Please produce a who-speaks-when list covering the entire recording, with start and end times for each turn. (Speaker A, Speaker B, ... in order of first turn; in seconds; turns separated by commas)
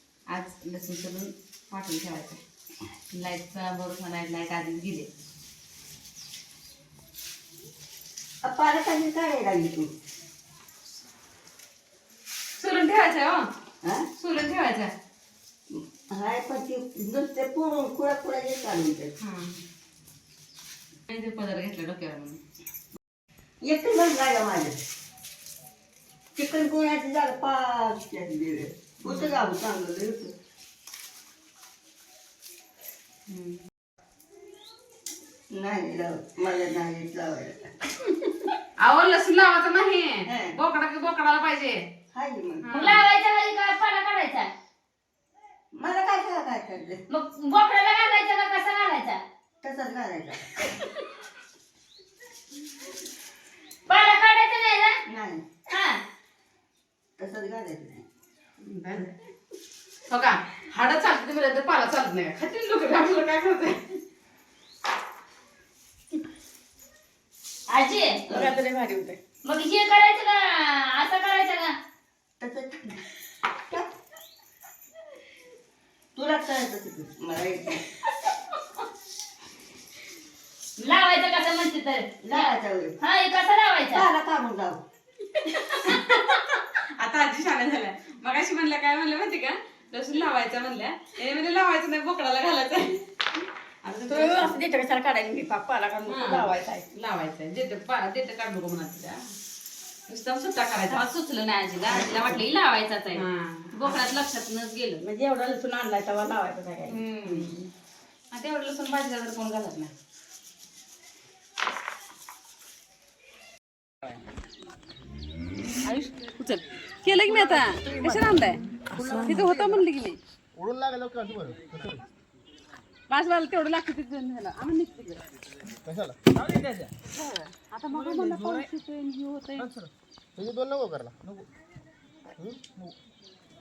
Speaker A: 0.3-2.4, Speaker A: 3.1-5.1, Speaker B: 8.4-9.9, Speaker A: 12.6-13.5, Speaker A: 14.2-14.9, Speaker B: 16.1-19.1, Speaker A: 19.2-19.6, Speaker A: 21.1-22.4, Speaker B: 23.6-24.8, Speaker B: 26.4-30.3, Speaker A: 29.1-29.4, Speaker A: 33.3-33.6, Speaker B: 35.5-38.0, Speaker A: 38.8-41.8, Speaker B: 40.3-40.5, Speaker B: 42.1-43.0, Speaker A: 42.6-43.0, Speaker C: 42.7-44.5, Speaker B: 45.8-47.0, Speaker C: 47.1-49.2, Speaker B: 49.6-50.4, Speaker C: 53.9-55.0, Speaker B: 55.1-55.5, Speaker C: 55.7-56.0, Speaker B: 57.2-58.0, Speaker A: 58.6-59.1, Speaker A: 60.1-64.0, Speaker C: 67.7-68.2, Speaker B: 68.3-68.6, Speaker D: 68.3-69.2, Speaker C: 69.4-71.7, Speaker B: 72.4-73.0, Speaker B: 73.5-73.9, Speaker B: 76.2-77.8, Speaker C: 80.8-82.5, Speaker B: 82.2-83.0, Speaker C: 83.0-84.1, Speaker B: 83.9-84.8, Speaker A: 85.4-93.0, Speaker A: 93.8-94.6, Speaker D: 94.1-96.8, Speaker A: 96.1-99.2, Speaker A: 100.1-101.0, Speaker C: 100.9-105.0, Speaker A: 101.9-102.4, Speaker A: 103.1-104.1, Speaker D: 105.0-107.5, Speaker A: 106.9-107.7, Speaker A: 108.3-109.9, Speaker A: 115.8-120.2, Speaker E: 117.3-119.8, Speaker E: 120.6-122.1, Speaker A: 123.1-125.2, Speaker E: 125.8-126.9, Speaker A: 127.7-129.7, Speaker E: 127.9-128.7, Speaker E: 129.6-131.5, Speaker E: 132.4-132.9